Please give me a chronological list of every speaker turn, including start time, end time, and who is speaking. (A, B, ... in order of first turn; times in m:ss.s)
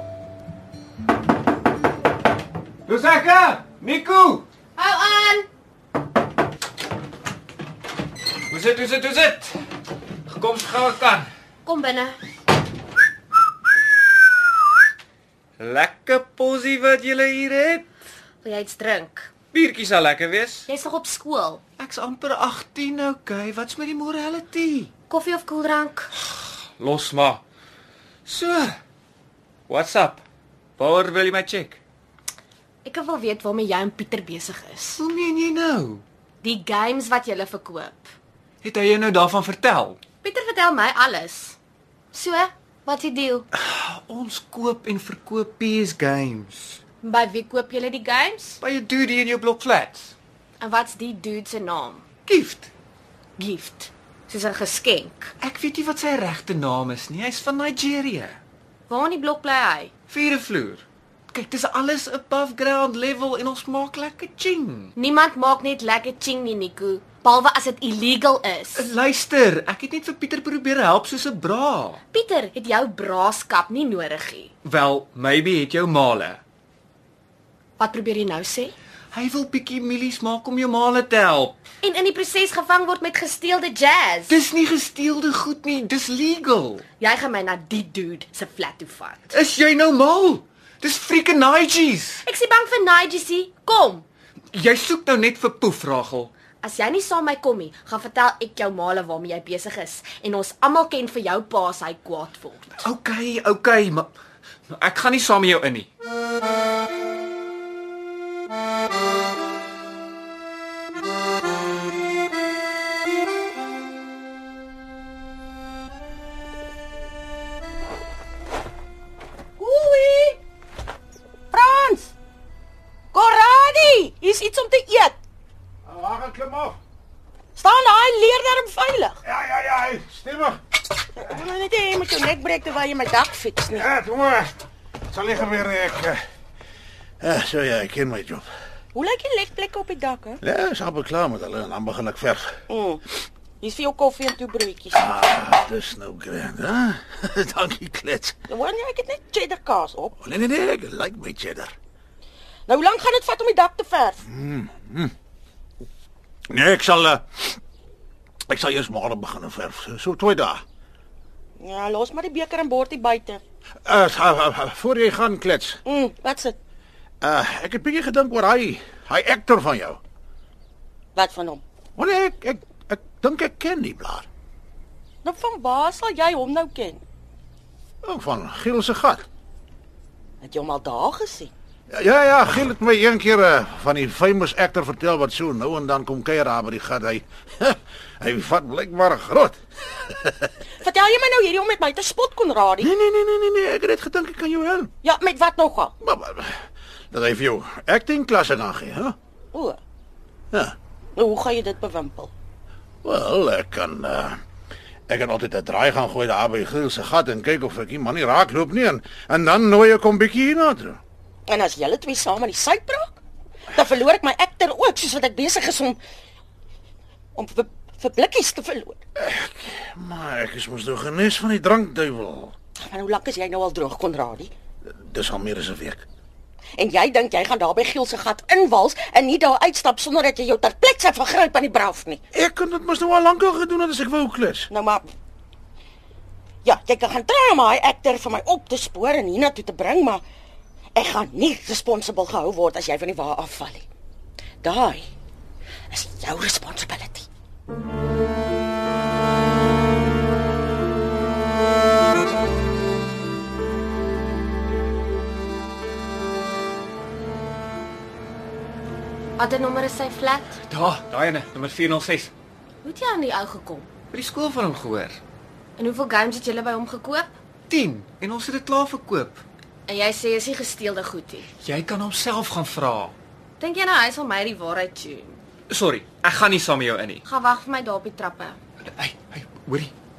0:02.8-0:04.4 A
0:04.8-0:05.5 B
0:08.5-0:09.6 A
0:10.3-0:11.3 A
0:11.6-0:12.2 B
0:15.6-0:17.9 A
0:18.4-0:19.3 B
0:19.5-0:20.7 A
0:20.7-0:21.6 B
0:21.8-0:24.9 A
0:25.1-0:26.1 B
0:26.8-0:27.4 A
0:28.2-0:28.8 A
0:29.7-0:30.2 A
0:30.8-0:31.8 A
0:32.8-0:35.0 B
0:34.9-0:36.0 A
0:36.4-0:38.1 B
0:38.6-0:40.0 A
0:40.2-0:41.6 B
0:42.1-0:43.5 B
0:43.6-0:46.8 A
0:47.0-0:48.6 B
0:48.6-0:50.1 A
0:50.6-0:52.0 B
0:52.3-0:52.7 A
0:53.4-0:55.3 B
0:55.4-0:58.4 A
0:58.9-0:59.9 B
1:00.1-1:04.9 A
1:05.0-1:08.9 B
1:08.7-1:12.0 A
1:12.1-1:14.5 B
1:14.6-1:16.4 A
1:17.8-1:18.7 B
1:19.1-1:21.6 A
1:21.8-1:24.4 B
1:24.3-1:26.8 A
1:27.0-1:29.3 B
1:29.3-1:32.2 A
1:32.2-1:34.0 B
1:34.5-1:36.3 A
1:36.6-1:42.8 B
1:42.8-1:44.1 A
1:44.7-1:45.9 A
1:59.6-2:00.4 C
2:01.5-2:02.1 C
2:03.1-2:05.2 C
2:05.8-2:06.8 D
2:07.6-2:09.2 C
2:09.2-2:10.6 D
2:11.2-2:13.8 C
2:13.7-2:14.5 D
2:15.1-2:16.2 D
2:17.2-2:18.5 D
2:18.9-2:20.4 C
2:20.4-2:22.5 D
2:22.7-2:23.0 C
2:23.6-2:25.0 C
2:24.9-2:28.4 D
2:28.5-2:30.2 C
2:30.2-2:31.7 D
2:32.7-2:34.2 C
2:34.2-2:35.1 D
2:36.5-2:37.6 D
2:38.5-2:40.6 D
2:41.6-2:43.4 C
2:43.8-2:45.8 D
2:45.8-2:46.6 C
2:47.2-2:50.0 D
2:51.1-2:51.6 C
2:52.0-2:54.3 D
2:55.2-2:57.0 C
2:58.0-2:59.2 D
3:00.4-3:01.5 C
3:01.9-3:10.3 D
3:10.7-3:12.9 C
3:12.8-3:14.9 D
3:15.0-3:15.9 C
3:16.0-3:19.2 D
3:19.5-3:19.8 C
3:21.2-3:22.3 C
3:23.0-3:24.4 D
3:25.1-3:31.0 D
3:31.5-3:33.2 C
3:33.7-3:36.0 C
3:37.4-3:39.0 C
3:39.2-3:42.5 D
3:42.8-3:44.5 C
3:44.8-3:46.0 D
3:46.8-3:52.2 C
3:52.3-3:54.7 D
3:54.7-3:55.0 C
3:56.6-4:00.2 C
4:00.9-4:03.8 C
4:04.6-4:05.1 C
4:05.9-4:07.3 C
4:19.4-4:20.5 B
4:20.7-4:22.3 A
4:22.8-4:23.9 B
4:24.1-4:25.2 A
4:25.8-4:27.3 B
4:27.7-4:29.4 A
4:29.9-4:31.5 B
4:31.6-4:33.1 A
4:33.6-4:35.4 B
4:35.7-4:37.2 A
4:37.2-4:38.6 B
4:38.9-4:39.9 A